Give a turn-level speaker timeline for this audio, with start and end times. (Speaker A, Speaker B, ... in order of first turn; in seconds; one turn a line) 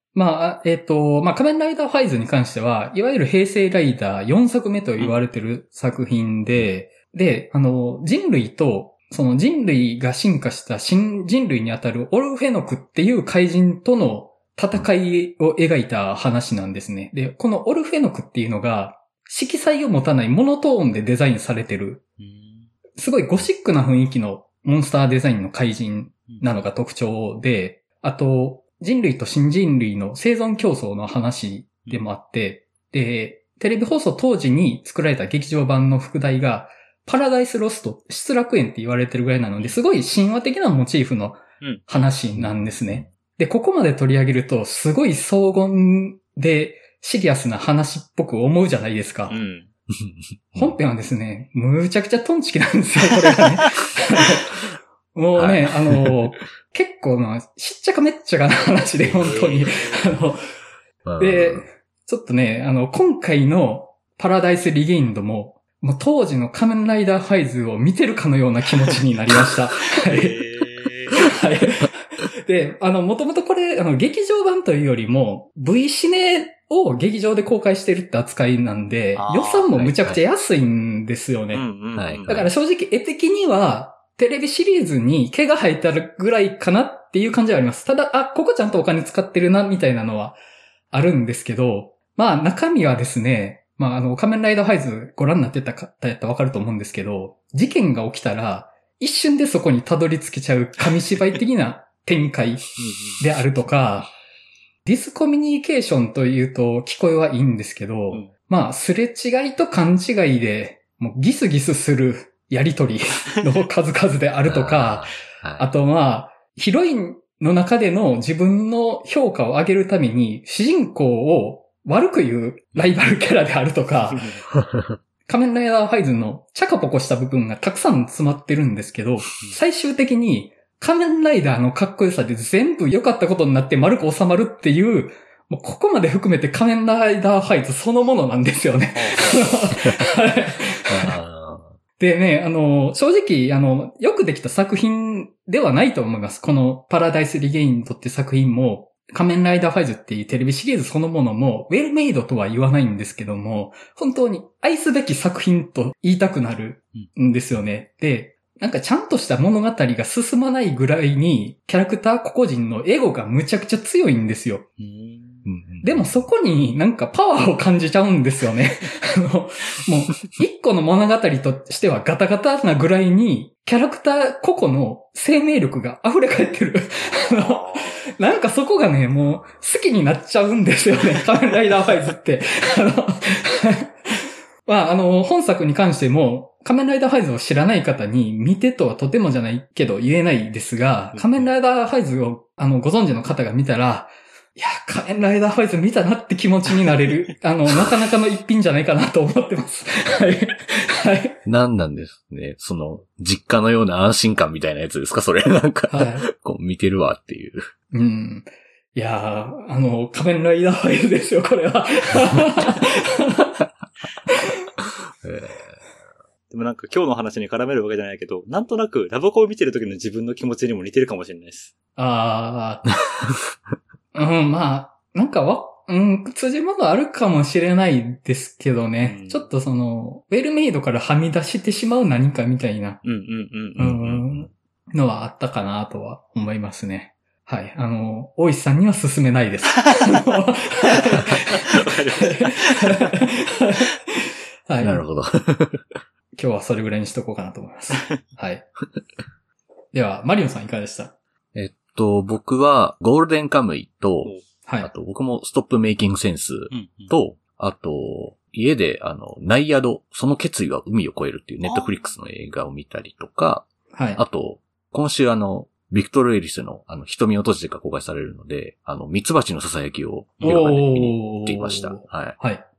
Speaker A: 0.1-22.0
Speaker B: 22.2-22.7
Speaker A: 22.9-49.4
Speaker B: 41.6-41.9
Speaker C: 42.3-43.1
Speaker B: 49.3-49.7
Speaker C: 50.0-50.8
Speaker A: 50.5-54.6
Speaker A: 55.1-60.4
Speaker C: 55.4-56.1
Speaker B: 59.1-60.2
Speaker C: 61.0-61.6
Speaker A: 61.2-70.4
Speaker B: 70.0-71.1
Speaker A: 71.1-81.7
Speaker B: 79.2-79.7
Speaker C: 79.7-80.2
Speaker B: 81.5-82.4
Speaker C: 81.9-82.5
Speaker A: 82.3-90.4
Speaker A: 90.9-102.7
Speaker B: 102.8-103.2
Speaker A: 103.2-104.1
Speaker A: 104.8-124.3
Speaker C: 114.4-115.7
Speaker B: 122.7-123.1
Speaker B: 124.1-124.4
Speaker A: 125.2-141.2
Speaker B: 138.9-139.6
Speaker C: 140.9-141.8
Speaker A: 142.0-164.6
Speaker B: 164.8-165.4
Speaker C: 165.4-166.2
Speaker A: 165.8-184.1
Speaker B: 177.1-178.0
Speaker A: 184.6-201.4
Speaker B: 191.1-191.5
Speaker C: 201.4-207.6
Speaker A: 205.9-206.3
Speaker A: 207.9-213.7
Speaker C: 215.2-215.8
Speaker B: 216.5-221.7
Speaker A: 221.9-222.9
Speaker A: 224.1-233.0
Speaker B: 229.0-229.5
Speaker B: 233.0-234.0
Speaker C: 233.8-234.5
Speaker A: 233.8-241.8
Speaker B: 241.3-243.1
Speaker A: 242.3-243.9
Speaker A: 244.7-245.0
Speaker C: 244.8-246.0
Speaker A: 246.3-248.7
Speaker A: 249.9-251.1
Speaker C: 251.5-272.4
Speaker A: 254.7-254.9
Speaker B: 256.7-257.1
Speaker B: 261.6-262.1
Speaker A: 263.9-264.2
Speaker A: 270.4-272.6